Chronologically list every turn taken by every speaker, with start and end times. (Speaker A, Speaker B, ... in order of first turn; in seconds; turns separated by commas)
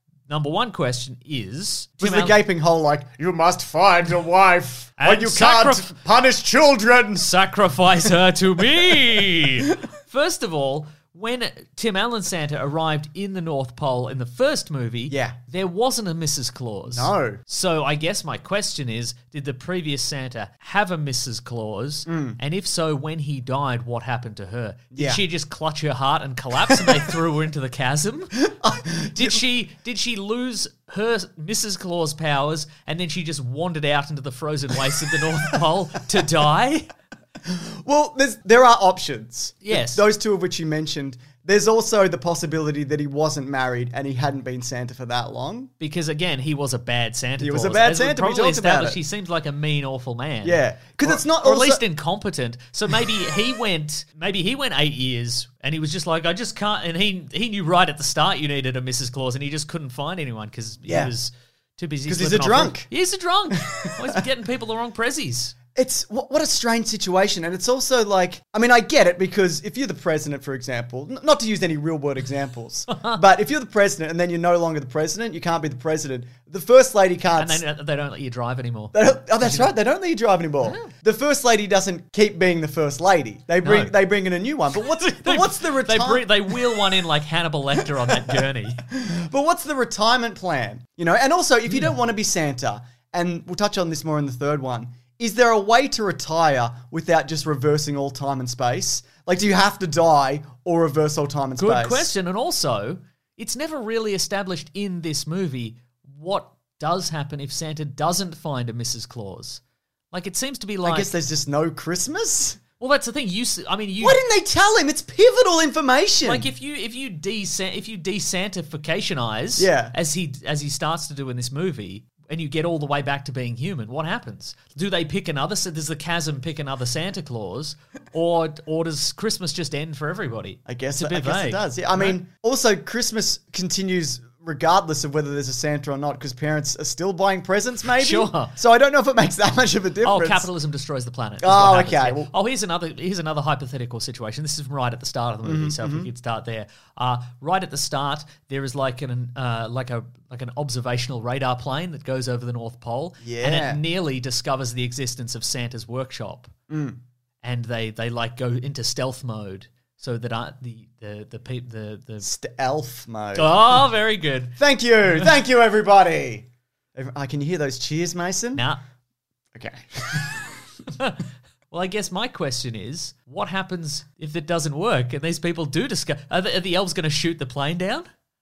Speaker A: 0.3-2.4, Speaker B: 2.0-7.3, Speaker A: 5.0-5.9, Speaker A: 7.2-28.5, Speaker B: 8.6-9.8, Speaker B: 15.1-15.4, Speaker B: 16.9-17.4, Speaker B: 22.1-22.4, Speaker B: 24.9-25.2, Speaker B: 26.7-27.0, Speaker B: 28.4-29.4, Speaker A: 29.1-36.9, Speaker B: 37.4-45.7, Speaker A: 39.6-40.0, Speaker A: 45.8-65.6, Speaker B: 47.4-49.0, Speaker B: 50.4-51.8, Speaker B: 60.9-61.1, Speaker B: 62.1-62.9, Speaker B: 63.6-64.2, Speaker B: 65.8-77.6, Speaker A: 72.9-73.2, Speaker A: 77.4-79.7, Speaker B: 78.9-86.8, Speaker A: 80.6-80.9, Speaker A: 83.6-84.0, Speaker A: 84.7-88.8, Speaker B: 88.1-102.1, Speaker A: 101.6-109.6, Speaker A: 110.1-111.1, Speaker B: 110.8-112.6, Speaker A: 112.8-114.2, Speaker B: 114.0-116.5, Speaker A: 116.2-132.2, Speaker B: 119.6-120.0, Speaker B: 130.7-140.5, Speaker A: 137.9-138.5, Speaker A: 140.0-156.5, Speaker B: 141.4-142.3, Speaker B: 145.4-146.1, Speaker B: 153.2-153.8, Speaker B: 156.7-157.0, Speaker A: 157.4-162.3, Speaker B: 162.2-163.6, Speaker A: 163.3-165.4, Speaker B: 164.6-168.7, Speaker A: 168.5-168.8, Speaker B: 169.5-170.5, Speaker A: 171.0-178.1